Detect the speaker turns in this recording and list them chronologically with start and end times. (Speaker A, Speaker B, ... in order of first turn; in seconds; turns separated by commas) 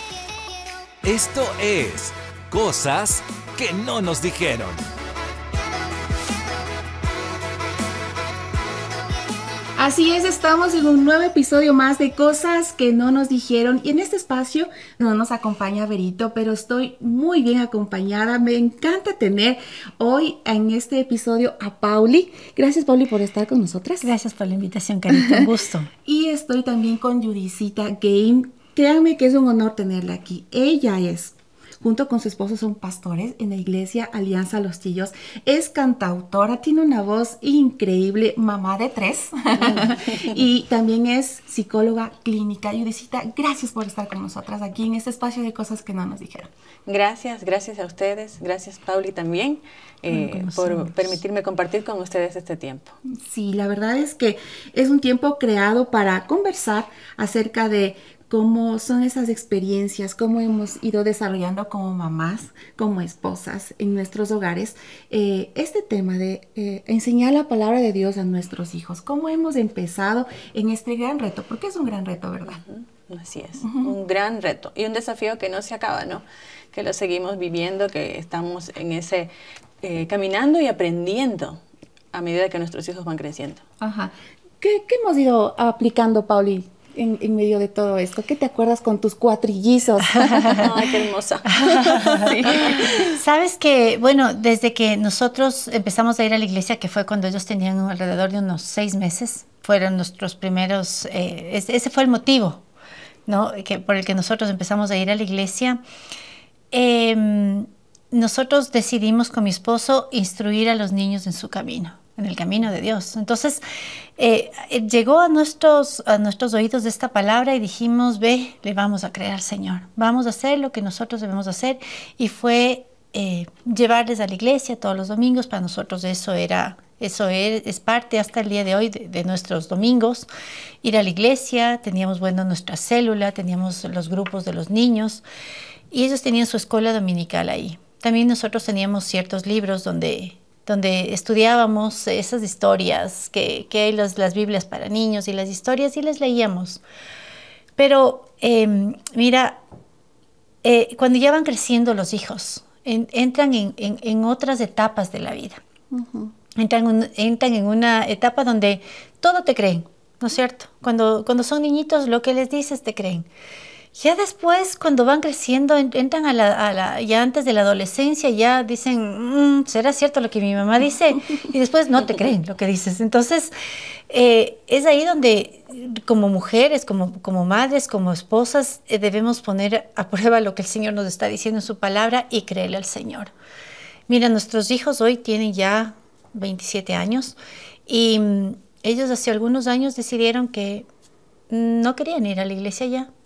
Speaker A: 1.0-4.8, Speaker B: 9.8-24.1, Speaker C: 24.0-25.9, Speaker B: 25.1-25.4, Speaker B: 26.1-46.5, Speaker D: 39.6-40.4, Speaker D: 46.9-53.0, Speaker C: 50.1-51.0, Speaker B: 53.1-72.6, Speaker D: 72.5-81.6, Speaker B: 73.6-73.9, Speaker D: 82.1-83.6, Speaker B: 83.8-90.7, Speaker D: 90.6-93.1, Speaker C: 91.5-102.6, Speaker C: 103.3-105.8, Speaker C: 106.7-113.6, Speaker C: 114.2-130.3, Speaker C: 130.8-135.2, Speaker C: 135.9-146.8, Speaker C: 147.8-149.6, Speaker C: 150.6-155.6, Speaker B: 155.9-156.3, Speaker C: 156.6-163.3, Speaker C: 164.0-173.5, Speaker C: 174.1-183.3, Speaker C: 184.1-187.3, Speaker C: 187.9-190.9, Speaker C: 191.5-193.1